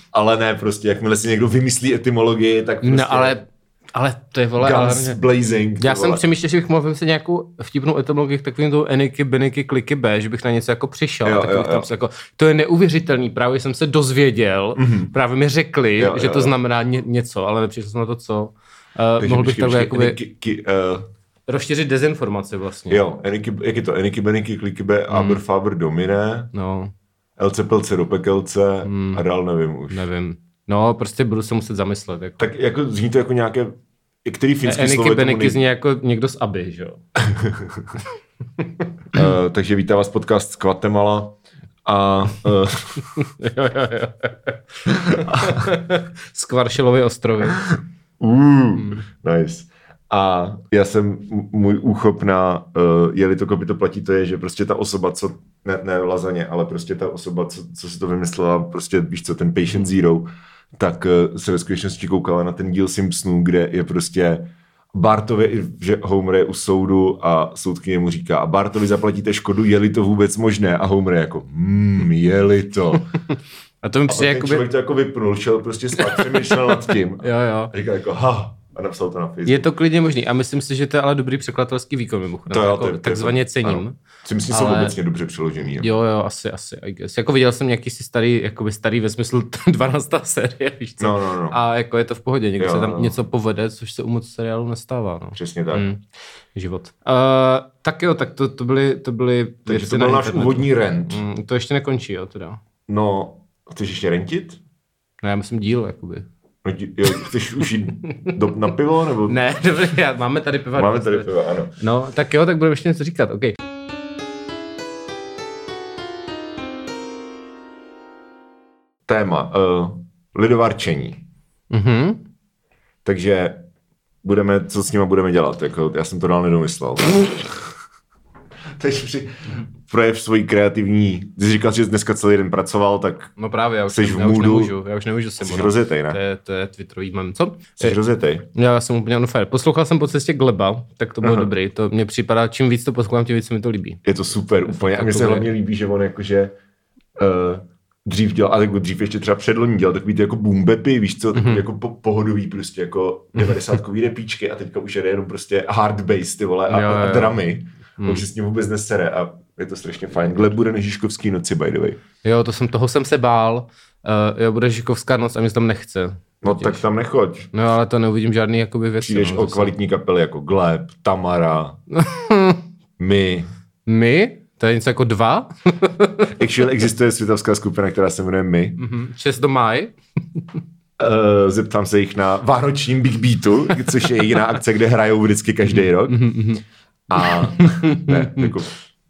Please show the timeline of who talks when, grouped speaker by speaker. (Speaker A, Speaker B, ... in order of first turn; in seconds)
Speaker A: 0.1-3.4, 4.6-6.2, 11.2-11.9, 14.8-15.1, 16.0-16.5, 19.2-21.1, 22.9-26.5, 27.4-30.1, 32.4-35.6, 37.2-38.0, 39.1-43.2, 44.9-45.7, 47.5-73.1, 74.1-79.7, 82.5-85.9, 91.0-91.6, 92.6-93.2, 95.3-95.9, 99.7-101.2, 102.9-104.6, 106.6-109.4, 110.8-111.8, 119.1-121.2, 123.0-123.7, 124.2-127.7, 128.8-133.3, 133.9-134.8, 135.4-136.2, 137.8-138.5, 141.2-141.5, 144.1-146.6, 147.2-162.0, 166.4-167.5, 169.0-171.8, 173.0-173.5, 176.3-178.8, 181.0-186.3, 187.1-188.8
Speaker B: 2.8-5.2, 5.8-20.2, 21.5-23.0, 25.1-25.4, 26.5-26.9, 28.9-29.2, 29.9-32.5, 34.6-37.0, 38.6-39.2, 43.2-44.6, 45.1-47.6, 73.8-74.7, 76.0-77.7, 79.5-83.9, 84.5-85.0, 85.6-96.0, 96.5-102.6, 105.2-106.3, 107.2-107.7, 109.3-113.6, 121.7-122.2, 133.4-138.0, 138.5-144.0, 144.7-145.5, 151.3-151.6, 153.4-153.8, 156.7-157.4, 158.0-158.2, 162.2-166.8, 167.5-169.7, 171.9-172.6, 173.9-176.3, 178.8-180.6, 185.7-186.6, 187.2-188.5